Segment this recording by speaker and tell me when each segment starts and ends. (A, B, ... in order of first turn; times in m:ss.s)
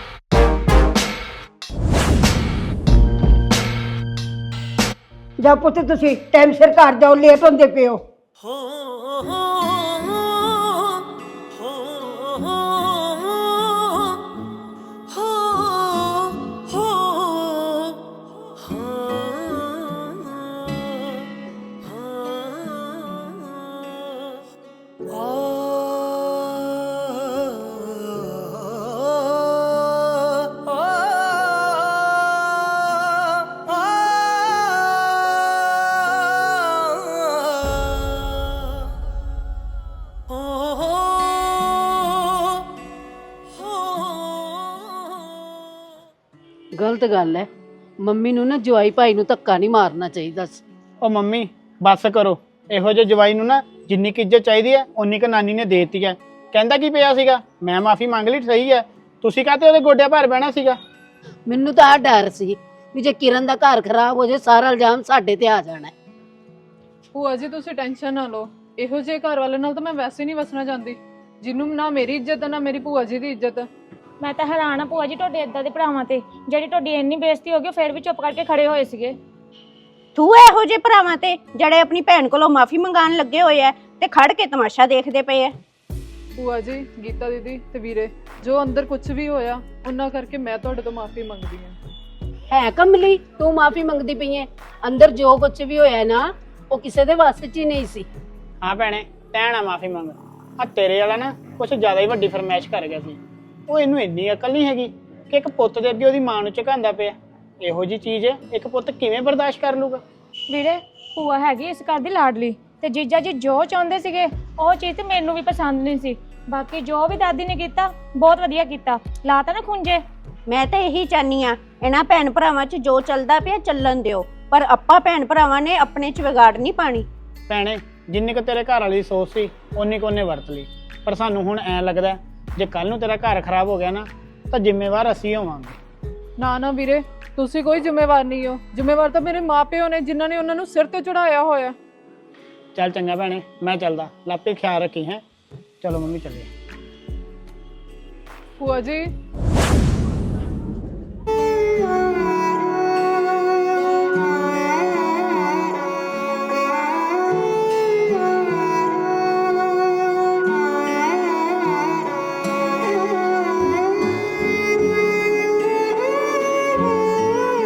0:05.4-0:08.0 A
0:46.8-0:47.5 B
0:48.0-0:50.6 B
0:51.0-1:00.8 C
1:01.5-1:05.9 B
1:07.1-1:13.7 D
1:14.2-1:19.2 E
1:20.2-1:25.6 F
1:26.4-1:31.8 D
1:32.5-1:38.1 B
1:38.6-1:50.0 C
1:50.5-2:00.0 E
2:00.5-2:07.1 F
2:07.5-2:15.8 C
2:16.4-2:21.8 D
2:22.8-2:25.2 C
2:25.8-2:26.5 C
2:28.6-2:29.1 D